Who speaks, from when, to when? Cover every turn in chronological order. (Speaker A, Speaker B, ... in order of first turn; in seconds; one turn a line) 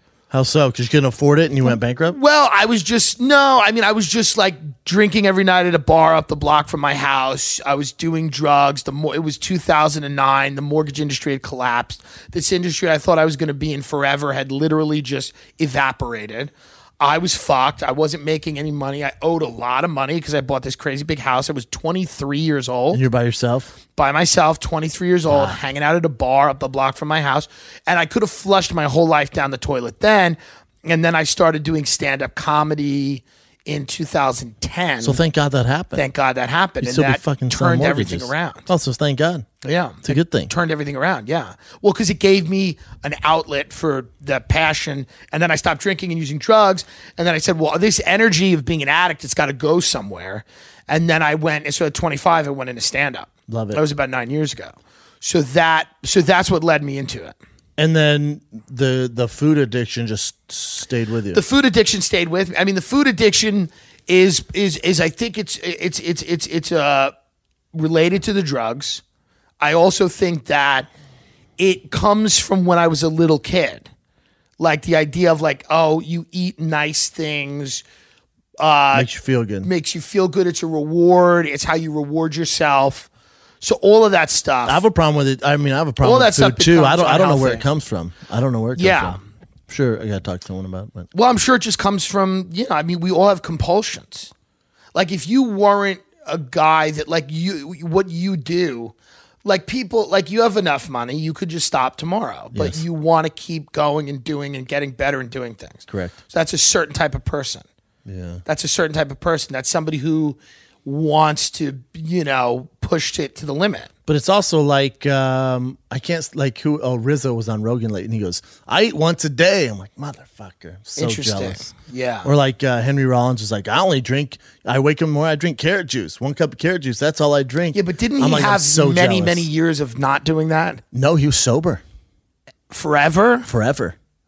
Speaker A: 0.3-2.2
Speaker B: 2.1-23.0
Speaker A: 22.9-23.7
Speaker B: 23.9-35.2
Speaker A: 25.3-25.6
Speaker A: 35.0-36.1
Speaker B: 35.9-38.7
Speaker A: 36.8-39.5
Speaker B: 39.6-57.3
Speaker A: 40.0-40.5
Speaker A: 53.5-53.8
Speaker A: 57.8-61.4
Speaker B: 61.3-67.1
Speaker B: 67.7-69.0
Speaker B: 69.6-70.9
Speaker B: 71.6-73.9
Speaker B: 74.6-77.8
Speaker B: 78.6-79.1
Speaker A: 78.9-79.7
Speaker B: 79.6-83.1
Speaker B: 83.6-84.8
Speaker A: 84.7-91.1
Speaker B: 86.0-87.6
Speaker B: 88.8-89.2
Speaker B: 91.1-94.3
Speaker B: 94.9-98.9
Speaker B: 99.4-107.6
Speaker A: 102.5-102.8
Speaker A: 105.9-106.2
Speaker A: 108.0-108.4
Speaker B: 108.5-113.9
Speaker A: 114.1-121.7
Speaker B: 121.0-122.3
Speaker A: 122.2-129.5
Speaker B: 127.7-130.8
Speaker A: 130.9-131.8
Speaker B: 132.7-133.5
Speaker A: 133.4-133.9